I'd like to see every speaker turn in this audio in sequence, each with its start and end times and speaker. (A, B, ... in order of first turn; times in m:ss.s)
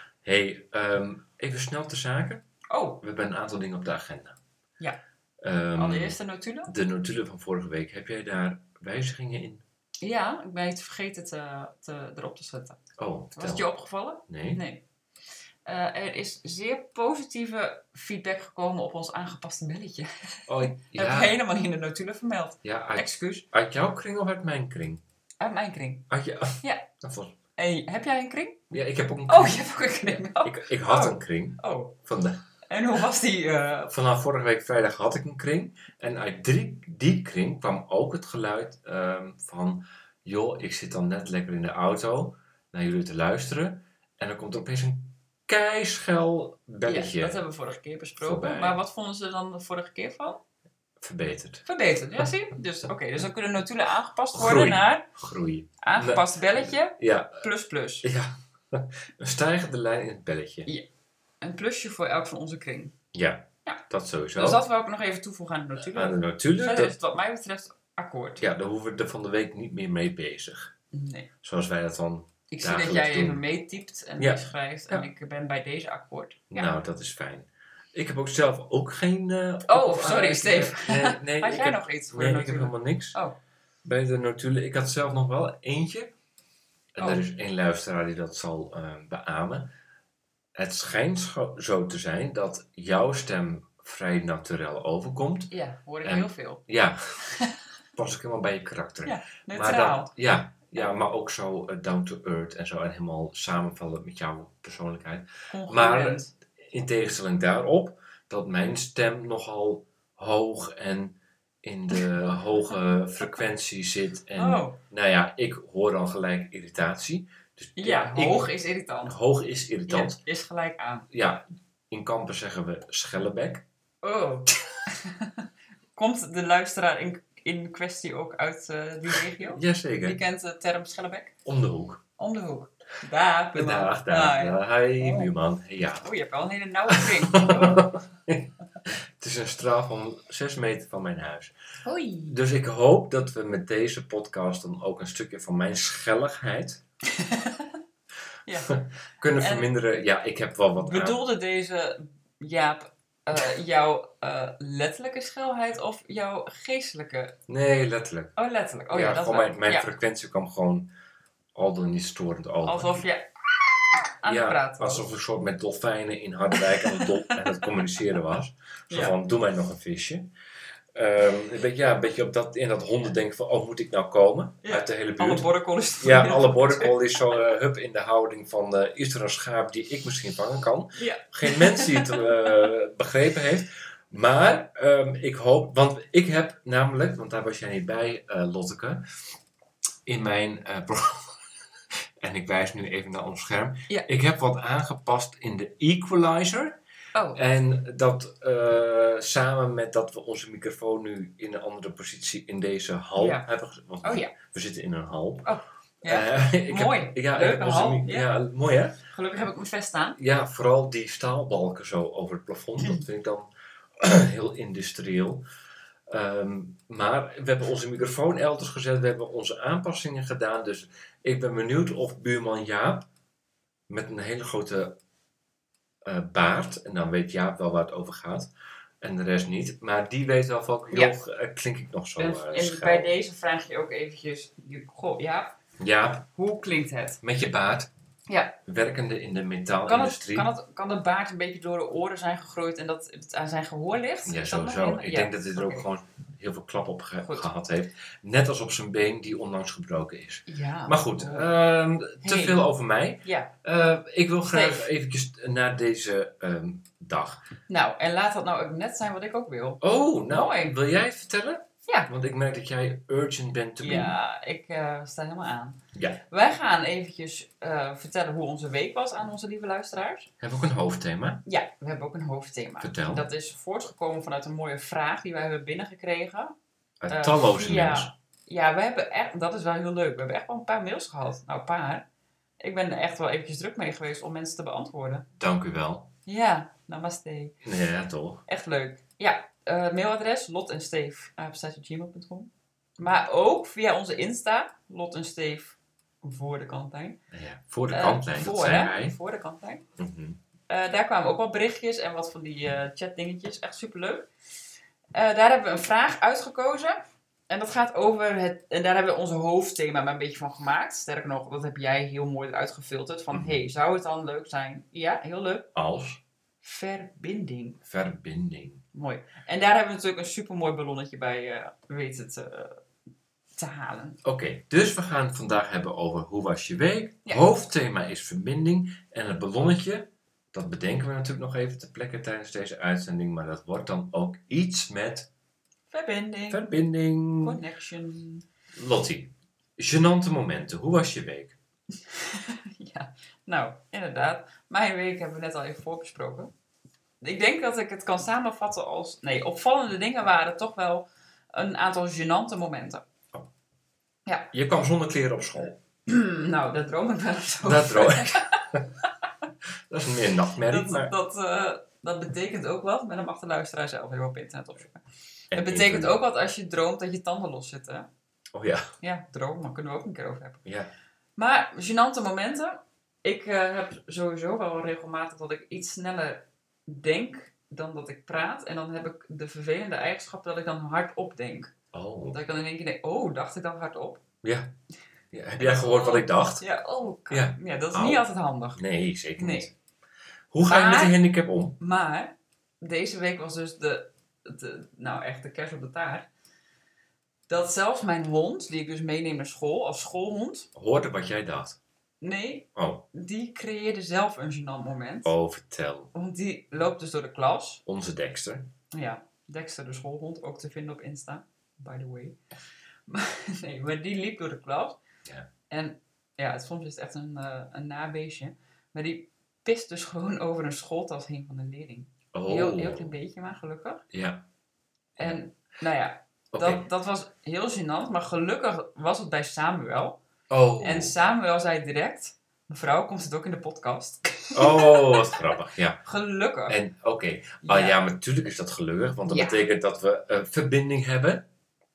0:00.2-0:02.4 A
0:02.7-0:03.0 B
0:03.0-0:04.4 A
0:05.4-0:09.6 A
0:05.8-0:06.7 B
0:10.0-0:12.8 B
0:13.0-0:13.7 A
0:13.4-0:14.8 B
0:14.3-0:14.6 A
0:15.7-0:23.5 B
0:20.5-0:21.4 A
0:22.6-0:25.0 A
0:25.4-0:26.0 B
0:26.1-0:27.4 A
0:27.6-0:28.6 B
0:28.7-0:32.4 A
0:29.3-0:32.0 B
0:32.7-0:33.9 B
0:33.9-0:47.4 A
0:46.8-0:50.4 B
0:48.2-0:48.8 A
0:51.0-0:51.6 A
0:51.6-0:55.1 B
0:54.3-0:57.4 A
0:55.8-0:58.1 B
0:58.0-1:00.7 A
1:01.4-1:02.9 B
1:03.1-1:04.6 A
1:04.4-1:08.5 B
1:05.9-1:07.0 A
1:08.4-1:10.7 A
1:10.9-1:11.3 B
1:11.4-1:13.4 A
1:12.5-1:16.7 B
1:14.2-1:15.1 A
1:16.5-1:23.2 A
1:19.6-1:23.4 B
1:23.8-1:26.1 A
1:27.0-1:29.7 A
1:27.0-1:27.2 B
1:30.6-1:35.5 A
1:35.5-1:36.6 B
1:36.0-1:37.2 A
1:37.3-1:37.6 B
1:38.0-1:58.5 A
1:39.0-1:40.1 B
1:45.5-1:46.3 B
1:54.4-1:54.8 B
1:57.8-1:59.2 B
1:59.0-2:00.2 A
1:59.9-2:01.1 B
2:01.1-2:03.6 A
2:04.0-2:05.4 B
2:06.0-2:11.3 B
2:09.2-2:10.2 A
2:11.4-2:12.0 A
2:12.2-2:15.3 B
2:13.5-2:16.1 A
2:16.0-2:17.9 B
2:16.9-2:21.5 A
2:21.8-2:22.4 B
2:22.3-2:26.8 A
2:27.1-2:27.8 B
2:28.5-2:28.8 B
2:28.7-2:31.2 A
2:29.4-2:29.7 B
2:30.8-2:37.4 B
2:37.5-2:38.4 A
2:38.4-2:39.9 B
2:38.9-2:40.9 A
2:41.6-2:43.1 A
2:42.6-2:45.1 B
2:44.2-2:50.3 A
2:46.6-2:47.7 B
2:48.9-2:49.2 B
2:50.9-2:55.5 A
2:54.6-2:57.4 B
2:56.0-3:09.0 A
3:01.0-3:02.4 B
3:10.1-3:11.4 A
3:12.2-3:16.8 A
3:17.1-3:17.4 B
3:17.3-3:25.5 A
3:23.2-3:23.5 B
3:24.0-3:24.3 B
3:25.4-3:28.3 B
3:26.0-3:29.0 A
3:29.1-3:30.2 B
3:30.2-3:35.4 A
3:36.1-3:43.1 A
3:43.9-3:45.0 A
3:46.0-3:48.5 A
3:49.0-3:53.1 A
3:52.2-3:55.6 B
3:55.8-3:56.3 A
3:56.4-3:57.2 B
3:57.2-3:57.9 A
3:58.3-3:58.6 B
3:58.6-4:00.5 A
3:59.9-4:05.8 B
4:04.2-4:17.4 A
4:07.2-4:07.5 B
4:10.5-4:11.5 B
4:12.2-4:12.7 B
4:13.2-4:13.5 B
4:14.5-4:14.9 B
4:17.7-4:20.8 B
4:19.8-4:24.2 A
4:23.8-4:30.3 B
4:25.9-4:26.2 A
4:30.4-4:31.4 A
4:31.5-4:36.6 B
4:32.8-4:33.3 A
4:37.0-4:38.1 A
4:37.1-4:42.0 B
4:42.6-4:45.3 B
4:45.4-4:46.1 A
4:46.3-4:47.6 B
4:47.6-4:48.4 A
4:48.5-4:57.2 B
4:57.3-4:59.2 A
4:57.9-4:59.8 B
5:00.0-5:00.4 A
5:00.7-5:04.3 B
5:05.1-5:07.0 B
5:07.5-5:15.7 B
5:13.3-5:13.6 A
5:15.7-5:16.2 A
5:16.6-5:17.8 B
5:17.8-5:18.8 A
5:18.9-5:22.8 B
5:23.6-5:24.2 B
5:24.2-5:35.3 A
5:35.9-5:36.7 B
5:36.5-5:37.6 A
5:37.4-5:38.4 B
5:38.7-5:41.6 A
5:42.1-5:46.5 B
5:47.2-5:53.0 B
5:54.3-5:54.5 B
5:54.5-5:55.8 A
5:56.1-5:58.6 B
5:57.6-5:58.8 A
5:59.9-6:01.1 A
6:00.7-6:08.1 B
6:05.5-6:06.2 A
6:08.5-6:08.9 A
6:09.0-6:10.6 B
6:10.6-6:10.9 A
6:11.4-6:21.7 B
6:21.9-6:22.4 A
6:22.3-6:24.2 B
6:24.4-6:24.7 A
6:25.3-6:26.6 A
6:25.6-6:28.8 B
6:27.3-6:29.7 A
6:29.4-6:29.7 B
6:30.5-6:31.8 A
6:30.6-6:31.2 B
6:31.8-6:36.3 B
6:37.5-6:40.7 B
6:40.8-6:41.8 A
6:42.2-6:45.3 B
6:42.8-6:43.1 A
6:45.2-6:46.1 A
6:46.1-6:47.8 B
6:47.9-6:48.7 A
6:48.9-6:52.4 B
6:53.1-6:55.0 B
6:55.7-7:04.0 B
7:02.3-7:03.2 A
7:04.1-7:04.4 A
7:05.2-7:10.2 B
7:06.5-7:06.9 A
7:10.5-7:11.2 A
7:10.8-7:15.4 B
7:14.5-7:16.0 A
7:16.0-7:16.8 B
7:16.7-7:21.4 A
7:17.6-7:18.0 B
7:19.3-7:19.7 B